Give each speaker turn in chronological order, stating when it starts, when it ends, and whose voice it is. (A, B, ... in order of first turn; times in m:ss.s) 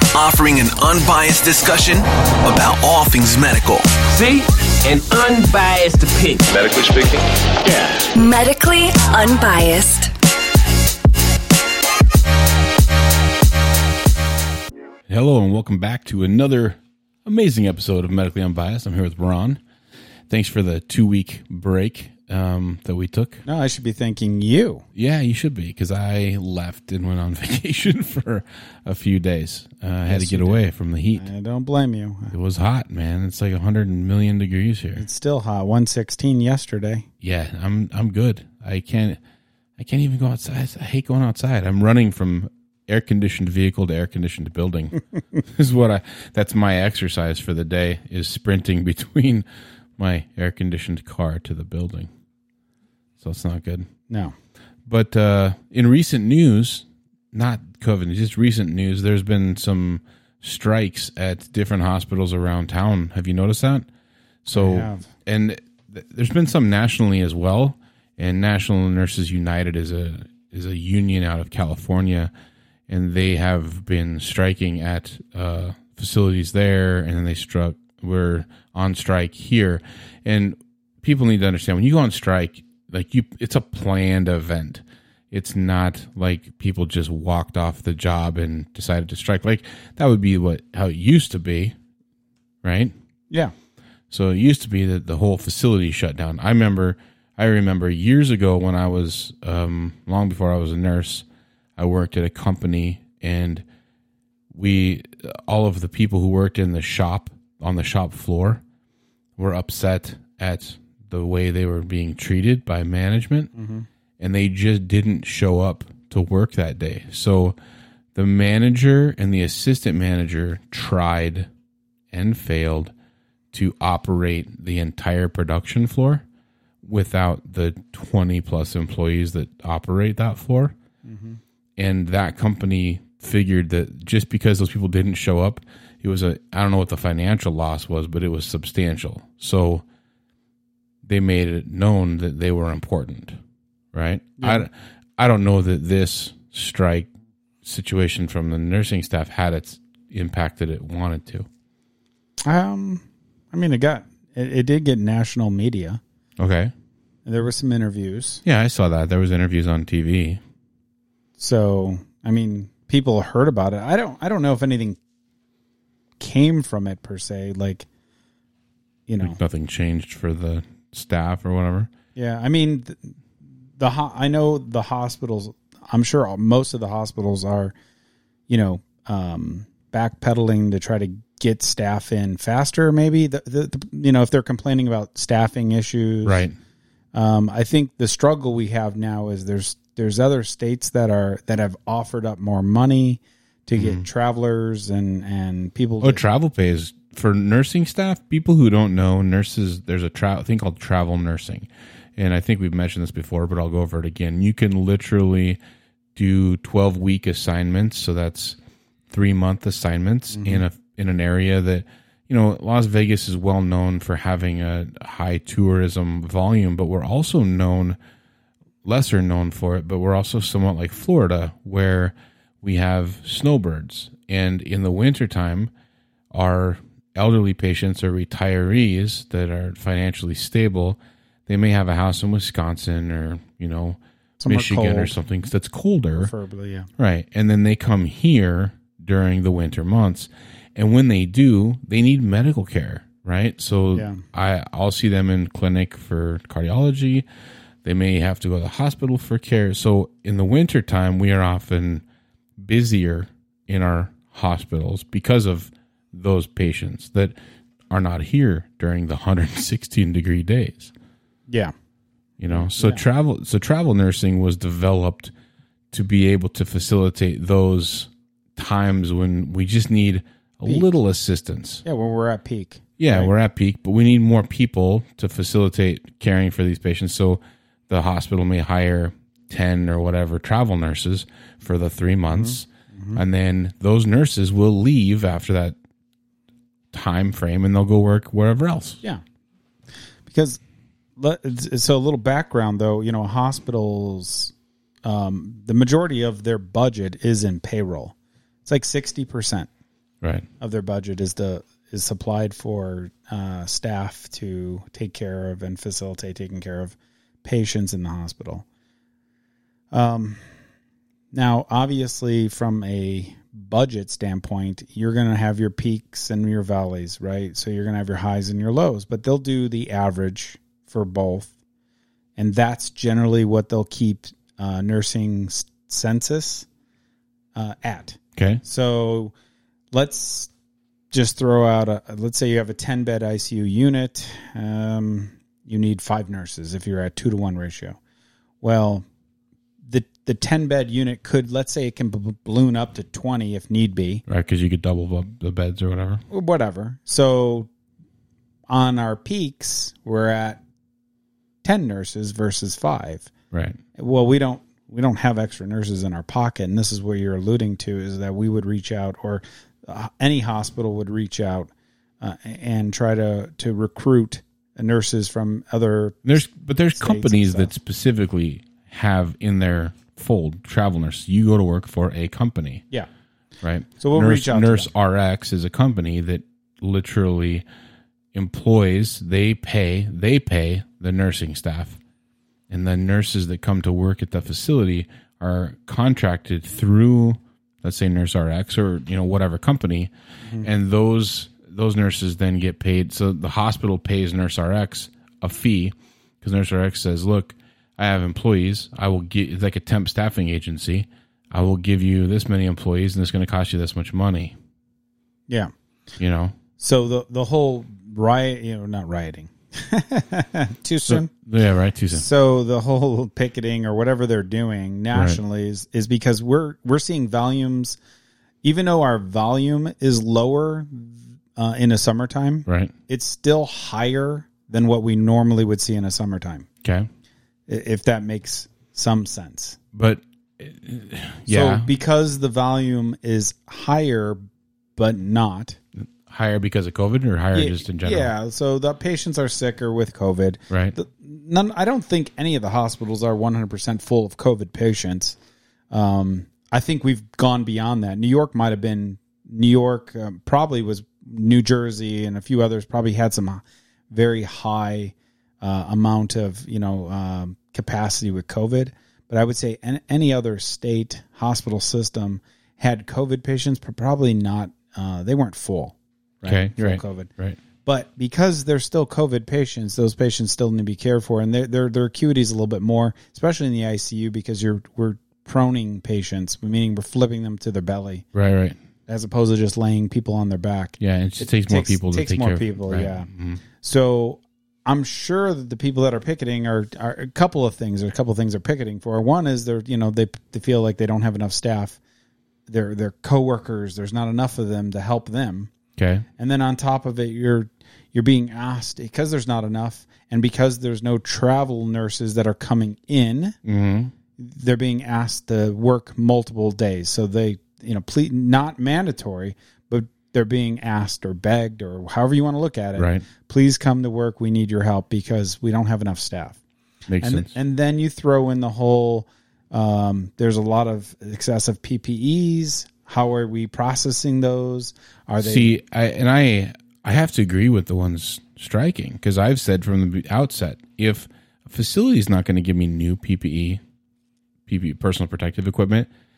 0:00.1-0:03.9 A
0:04.1-0:06.7 B
0:08.1-0:10.1 C
0:15.1-0:19.6 D
0:20.3-0:23.4 D
0:23.5-0:24.8 E
0:25.0-0:31.3 D
0:30.1-0:30.6 E
0:31.2-0:32.3 E
0:32.3-0:35.0 D
0:35.0-0:37.1 E
0:37.2-0:39.2 D
0:39.8-0:49.5 D
0:50.0-0:52.1 D
0:53.2-0:53.9 D
0:54.1-0:54.4 E
0:54.9-1:03.9 D
1:04.4-1:12.3 D
1:04.5-1:05.1 E
1:12.9-1:31.8 D
1:32.6-1:32.9 D
1:34.1-1:41.2 D
1:41.8-1:43.6 D
1:44.5-1:48.6 D
1:49.4-1:53.5 D
1:53.6-1:53.9 E
1:54.2-1:57.6 D
1:58.2-2:01.5 D
2:02.1-2:02.9 D
2:03.5-2:06.2 D
2:06.8-2:10.7 D
2:11.0-2:11.4 E
2:11.8-2:19.8 D
2:21.0-2:23.4 D
2:23.9-2:27.1 D
2:24.4-2:24.7 E
2:27.6-2:31.5 D
2:32.4-2:36.0 E
2:36.4-2:36.7 D
2:37.3-2:38.4 E
2:38.4-2:40.4 D
2:41.4-2:45.0 E
2:46.2-2:47.9 E
2:49.1-2:49.4 E
2:49.2-2:51.9 D
2:52.2-2:53.2 E
2:53.8-2:57.7 E
2:58.5-3:06.5 E
3:06.2-3:06.6 D
3:07.1-3:16.2 E
3:13.8-3:14.1 D
3:16.0-3:25.6 D
3:26.2-3:28.6 D
3:29.1-3:38.0 D
3:30.3-3:30.6 E
3:38.8-3:45.7 D
3:46.3-3:56.3 D
3:54.4-3:55.2 E
3:56.2-3:56.9 E
3:57.0-4:07.3 D
4:04.0-4:04.2 E
4:07.8-4:12.0 D
4:12.6-4:17.4 D
4:17.9-4:20.9 D
4:21.5-4:21.7 E
4:22.4-4:25.3 D
4:22.5-4:23.0 E
4:25.9-4:31.8 D
4:31.8-4:33.3 E
4:33.0-4:45.8 D
4:42.3-4:43.2 E
4:46.9-4:49.0 D
4:50.3-4:50.6 E
4:51.2-4:54.5 E
4:55.0-4:59.7 E
5:00.6-5:08.6 E
5:09.9-5:10.4 E
5:11.3-5:21.5 E
5:22.4-5:26.7 E
5:27.6-5:29.3 E
5:28.4-5:28.6 D
5:29.9-5:30.5 E
5:31.1-5:38.0 E
5:38.6-5:39.0 E
5:39.9-5:44.2 E
5:44.3-5:46.2 D
5:46.3-5:47.7 E
5:48.7-5:50.6 E
5:51.6-5:53.3 E
5:53.5-5:53.8 D
5:54.0-6:07.7 E
6:06.2-6:12.8 D
6:13.6-6:17.6 D
6:14.0-6:14.9 E
6:18.3-6:22.0 D
6:22.7-6:44.6 D
6:46.2-6:46.6 D
6:46.8-6:51.3 E
6:51.1-6:52.3 D
6:52.1-6:58.0 E
6:55.1-6:55.4 D
6:58.6-7:06.7 E
7:02.7-7:02.9 D
7:06.8-7:07.1 D
7:07.7-7:09.8 E
7:09.9-7:11.9 D
7:11.5-7:14.4 E
7:15.0-7:15.8 E
7:16.0-7:18.3 D
7:17.5-7:25.4 E
7:20.7-7:21.0 D
7:25.9-7:47.3 E
7:46.4-7:47.6 D
7:47.8-7:58.2 E
7:58.3-7:58.8 D
7:59.1-8:03.3 E
8:01.0-8:03.6 D
8:03.8-8:12.0 E
8:12.7-8:15.7 E
8:16.0-8:16.3 D
8:16.4-8:23.6 E
8:23.6-8:24.1 D
8:24.4-8:36.6 E
8:33.0-8:33.2 D
8:37.1-8:37.5 D
8:37.2-8:45.7 E
8:45.4-8:53.8 D
8:54.7-8:56.1 D